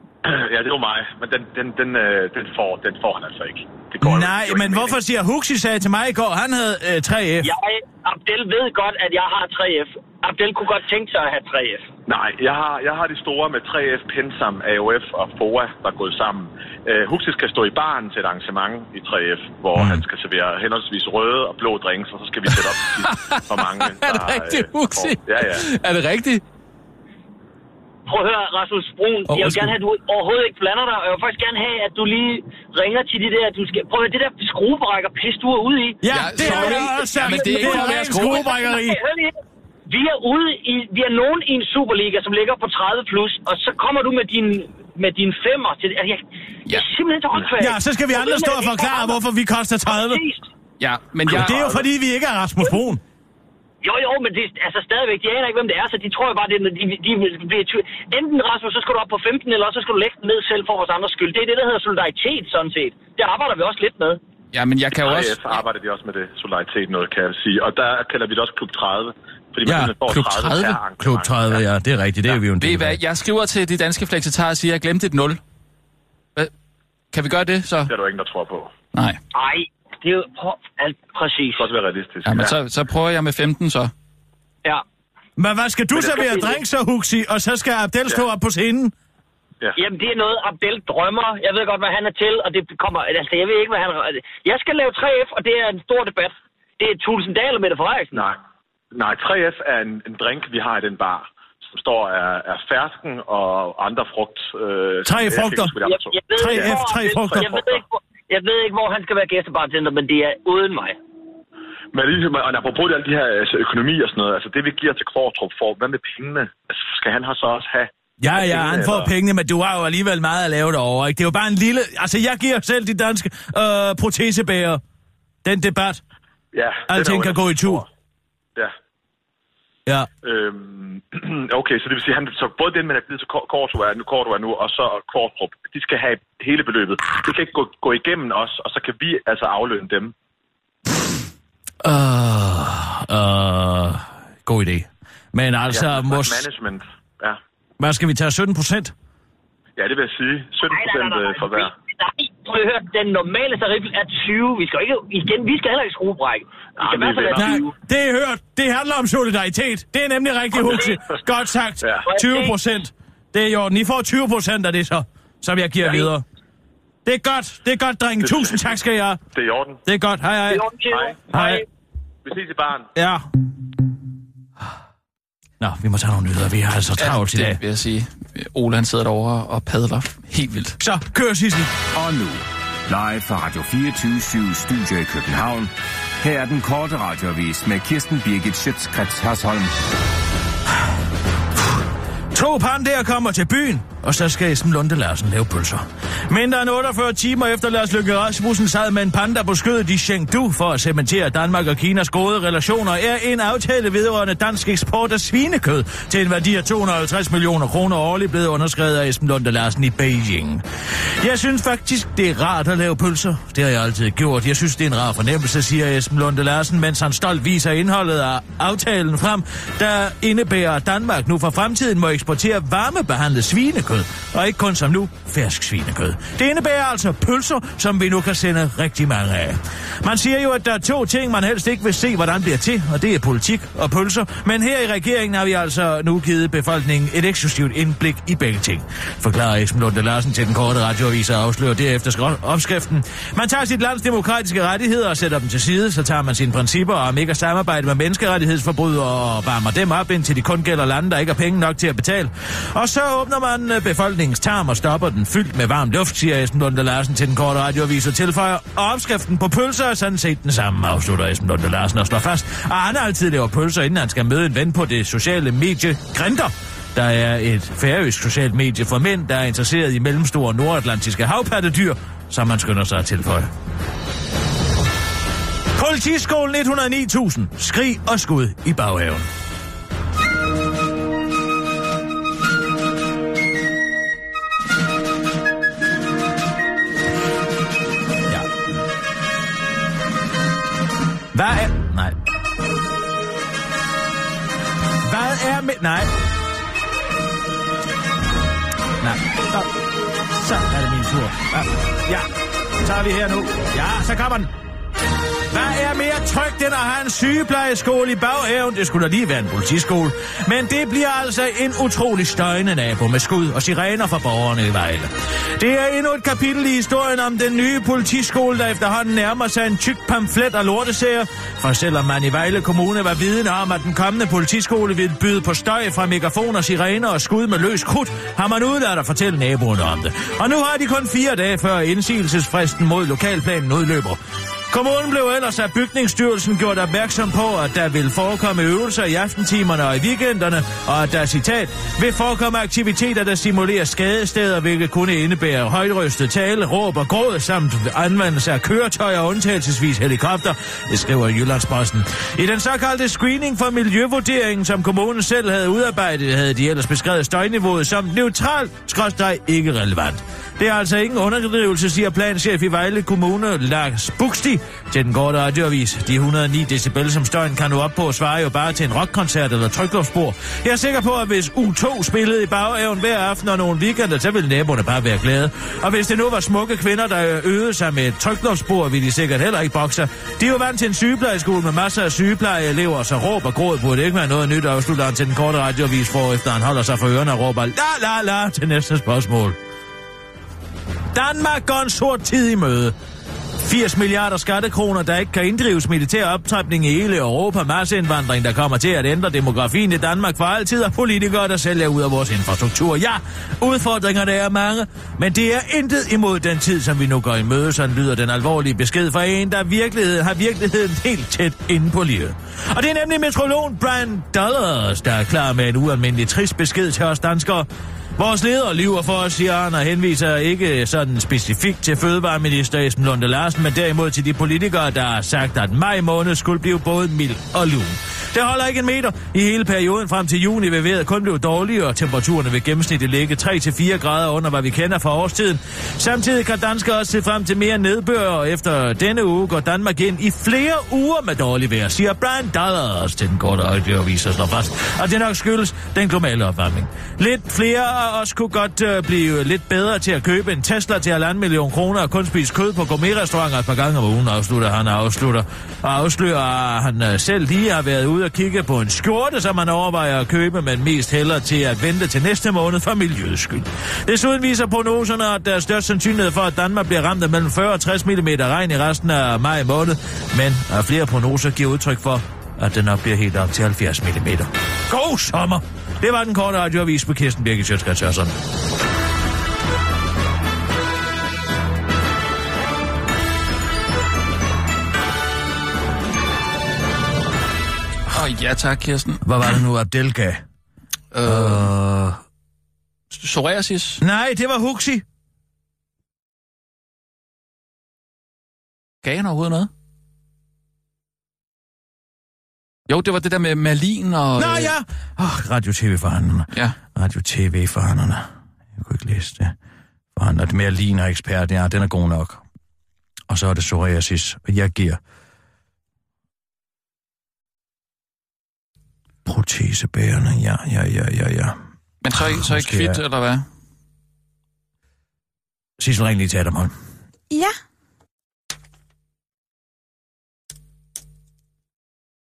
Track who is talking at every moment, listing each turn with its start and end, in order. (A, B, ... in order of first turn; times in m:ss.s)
0:00.2-0:05.0 A
0:04.0-0:07.5 B
0:07.4-0:11.8 C
0:12.1-0:25.6 A
0:22.5-0:26.4 D
0:28.1-0:39.3 C
0:29.3-0:29.7 B
0:36.0-0:39.0 B
0:36.1-0:38.4 D
0:39.9-0:49.2 C
0:47.6-0:50.2 B
0:49.9-0:50.4 C
0:50.8-0:51.8 D
0:51.3-0:53.0 B
0:53.8-1:04.2 C
1:04.5-1:05.6 D
1:05.0-1:11.6 A
1:09.6-1:13.0 B
1:10.2-1:10.8 D
1:12.6-1:15.4 D
1:17.1-1:17.9 D
1:17.9-1:18.7 A
1:18.9-1:19.2 D
1:19.3-1:21.6 C
1:21.6-1:22.5 A
1:22.2-1:23.9 D
1:25.4-1:28.9 B
1:25.9-1:26.6 C
1:29.8-1:38.2 C
1:38.1-1:38.4 A
1:38.9-1:47.7 A
1:45.0-1:45.7 B
1:45.8-1:51.0 C
1:46.3-1:47.6 B
1:51.9-1:59.1 A
1:58.2-2:04.8 B
2:05.4-2:06.0 B
2:06.5-2:07.8 A
2:06.9-2:07.8 B
2:10.2-2:20.1 A
2:21.8-2:26.5 B
2:25.7-2:27.4 A
2:27.8-2:28.9 B
2:29.8-2:31.7 A
2:30.7-2:37.7 C
2:36.8-2:37.5 A
2:37.3-2:46.2 B
2:40.6-2:41.0 C
2:40.6-2:40.9 A
2:41.8-2:42.1 A
2:42.0-2:42.5 C
2:47.0-2:49.2 B
2:48.2-2:48.8 A
2:49.3-2:49.8 A
2:49.8-2:50.6 B
2:50.5-2:51.6 C
2:50.9-2:51.3 A
2:51.3-2:51.6 B
2:52.2-2:52.9 A
2:52.9-2:53.2 B
2:55.6-2:57.6 B
2:57.0-3:00.8 D
3:00.8-3:01.7 B
3:01.9-3:09.8 E
3:12.3-3:30.6 B
3:31.2-4:33.5 B
4:35.7-4:39.3 B
4:51.3-4:52.1 B
4:55.0-4:56.1 B
4:59.0-4:59.7 B
5:00.3-5:02.3 B
5:02.8-5:04.5 B
5:05.5-5:34.2 B
5:34.7-6:29.6 B
6:31.1-6:32.9 B
6:33.6-7:58.3 B
8:08.1-8:09.6 D
8:09.2-8:10.4 B
8:11.1-8:11.7 D
8:11.2-8:12.2 B
8:13.1-8:14.0 D
8:14.0-8:15.0 B
8:19.0-8:19.7 D
8:22.9-8:24.7 D
8:24.4-8:28.2 B
8:28.8-8:29.5 B
8:30.2-8:32.4 B
8:33.3-8:35.0 B
8:39.2-8:41.6 B
8:42.0-8:43.4 D
8:42.1-8:43.0 B
8:45.8-8:46.7 B